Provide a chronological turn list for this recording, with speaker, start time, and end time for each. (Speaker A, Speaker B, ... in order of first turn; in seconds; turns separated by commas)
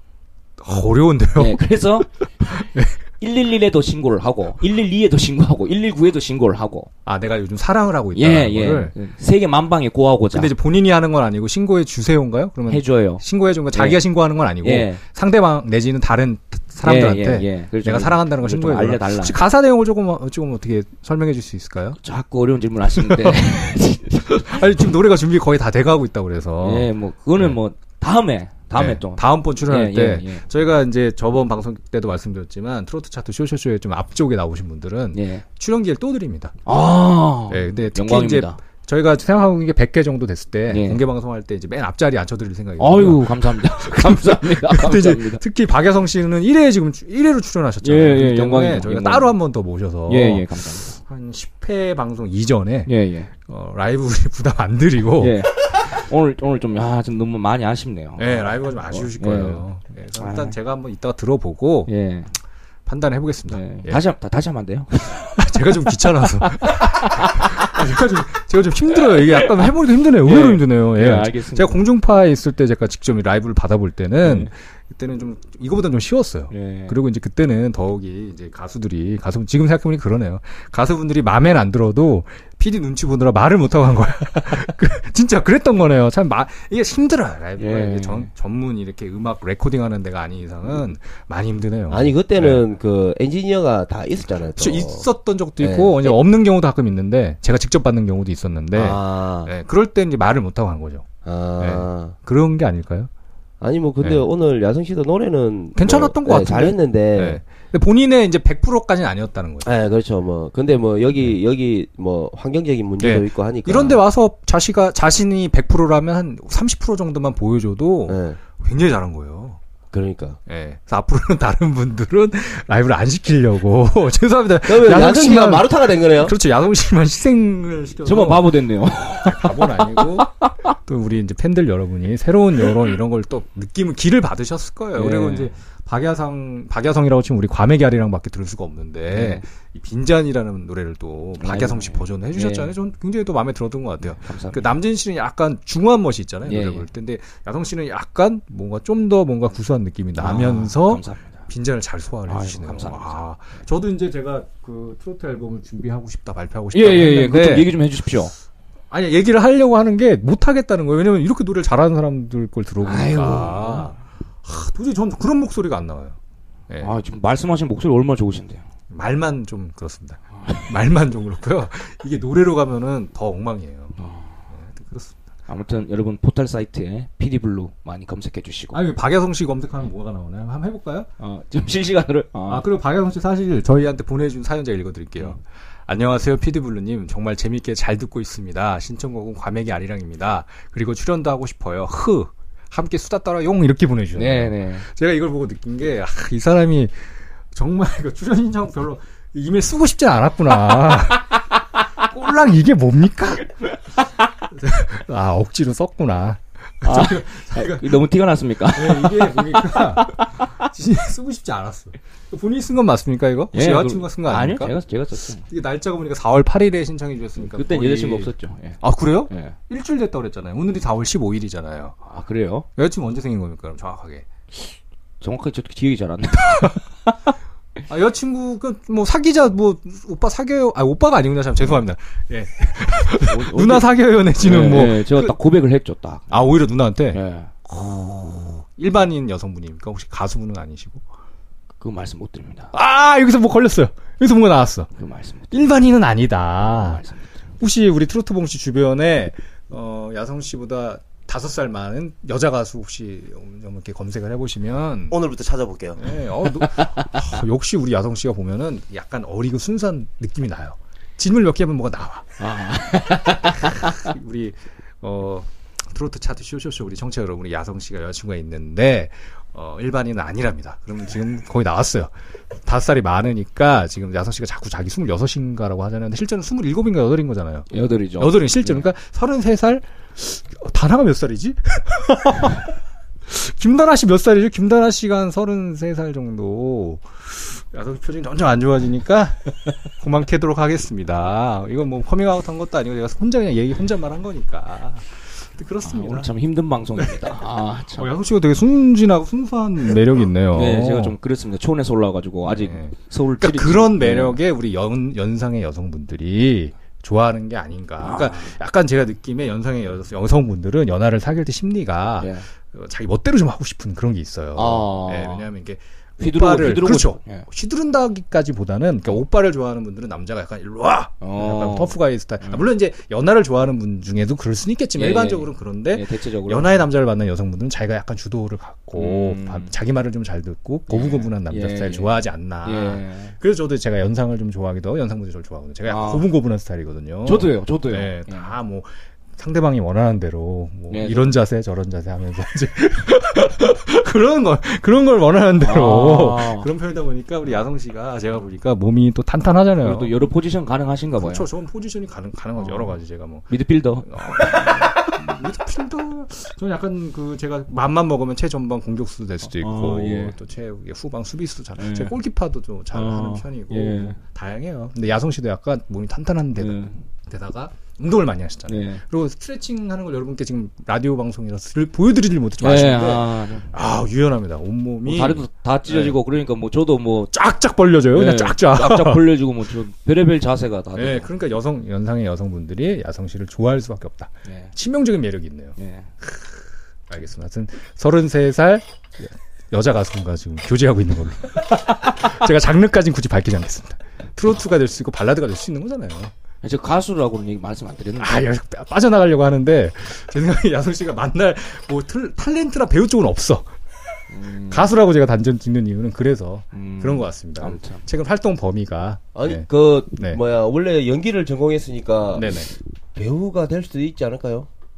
Speaker A: 0.6-1.6, Speaker B: 1.4-2.6, Speaker A: 2.4-3.0, Speaker B: 3.2-6.9, Speaker A: 7.0-8.9, Speaker B: 8.1-10.5, Speaker A: 10.3-22.0, Speaker B: 12.7-14.0, Speaker B: 14.6-15.0, Speaker B: 16.8-19.4, Speaker B: 22.0-24.6, Speaker A: 22.9-27.6, Speaker B: 26.6-30.4, Speaker A: 28.7-36.6, Speaker B: 35.1-35.5, Speaker B: 36.6-38.6, Speaker A: 37.5-56.0, Speaker B: 40.7-41.0, Speaker B: 42.8-45.4, Speaker B: 47.8-49.3, Speaker B: 50.1-51.0, Speaker B: 52.9-53.3, Speaker B: 55.2-59.6, Speaker A: 58.1-61.9, Speaker B: 60.2-60.5, Speaker B: 61.9-62.3, Speaker A: 62.9-64.0, Speaker B: 63.5-67.9, Speaker A: 65.0-92.6, Speaker B: 69.1-71.8, Speaker B: 74.2-74.5, Speaker B: 76.5-77.0, Speaker B: 87.6-88.3, Speaker C: 91.9-95.0, Speaker A: 94.5-101.1, Speaker C: 95.6-96.2, Speaker C: 98.7-99.5, Speaker C: 101.2-102.2, Speaker A: 101.6-103.1, Speaker C: 103.6-107.4, Speaker A: 104.0-104.3, Speaker A: 105.8-109.7, Speaker C: 109.6-114.0, Speaker A: 113.0-119.6, Speaker C: 118.1-118.4, Speaker C: 119.9-120.4, Speaker A: 120.5-130.3, Speaker C: 124.7-126.3, Speaker B: 128.1-130.5, Speaker A: 130.8-157.7, Speaker B: 134.9-135.5, Speaker B: 139.1-139.4, Speaker B: 141.4-142.7, Speaker B: 144.1-144.7, Speaker B: 146.4-146.9, Speaker B: 150.2-151.4, Speaker B: 152.3-153.2, Speaker B: 156.7-158.3, Speaker A: 158.9-166.2, Speaker B: 162.8-163.9, Speaker A: 166.7-166.9, Speaker B: 166.8-168.6, Speaker A: 168.9-174.0, Speaker B: 170.4-170.7, Speaker B: 174.0-174.4, Speaker A: 174.5-175.1, Speaker B: 175.5-178.8, Speaker A: 178.7-181.1, Speaker B: 181.2-182.6, Speaker A: 182.5-196.9, Speaker B: 194.1-194.9, Speaker A: 197.5-201.4, Speaker A: 202.0-203.5, Speaker A: 204.5-208.0, Speaker B: 206.8-210.5, Speaker A: 208.7-214.7, Speaker B: 213.5-215.4, Speaker A: 215.4-218.3, Speaker B: 217.4-219.6, Speaker A: 218.8-221.9, Speaker B: 222.1-222.7, Speaker A: 222.8-224.3, Speaker B: 225.2-227.1, Speaker A: 227.9-235.4, Speaker B: 233.2-236.4, Speaker A: 236.3-241.0, Speaker B: 237.1-237.5, Speaker B: 241.8-242.7, Speaker A: 242.7-244.9, Speaker B: 245.0-245.5, Speaker A: 245.5-247.0, Speaker B: 246.7-247.3, Speaker A: 247.6-255.2, Speaker C: 255.1-256.0, Speaker A: 255.9-262.3, Speaker B: 256.6-257.3, Speaker B: 262.4-264.1, Speaker A: 263.5-272.1, Speaker A: 272.6-282.7, Speaker B: 277.7-278.9, Speaker A: 283.3-296.3, Speaker B: 295.8-298.1, Speaker A: 297.0-297.4, Speaker A: 297.9-301.1, Speaker B: 300.5-304.4, Speaker A: 302.4-350.1, Speaker B: 308.0-308.5, Speaker B: 312.2-312.4, Speaker B: 314.6-315.4, Speaker B: 316.2-317.4, Speaker B: 321.2-322.6, Speaker B: 324.9-326.8, Speaker B: 328.9-329.7, Speaker B: 330.9-332.1, Speaker B: 332.6-333.3, Speaker B: 335.9-336.2, Speaker B: 337.2-338.5, Speaker B: 340.9-341.3, Speaker B: 345.6-346.7, Speaker B: 349.8-351.4, Speaker A: 351.2-353.5, Speaker B: 352.6-352.9, Speaker B: 353.5-355.4, Speaker A: 354.1-376.2, Speaker B: 359.6-360.4, Speaker B: 361.8-362.1, Speaker B: 362.9-364.2, Speaker B: 366.6-367.0, Speaker B: 368.7-369.0, Speaker B: 372.6-373.7, Speaker B: 375.1-377.3, Speaker A: 377.3-379.3, Speaker B: 378.1-381.3, Speaker A: 380.9-396.3, Speaker B: 384.4-384.7, Speaker B: 385.8-386.1, Speaker B: 396.6-398.4, Speaker A: 398.2-403.7, Speaker B: 404.3-404.9, Speaker A: 404.7-410.4, Speaker B: 406.7-408.0, Speaker C: 409.3-412.6, Speaker A: 412.3-412.7, Speaker C: 413.1-414.7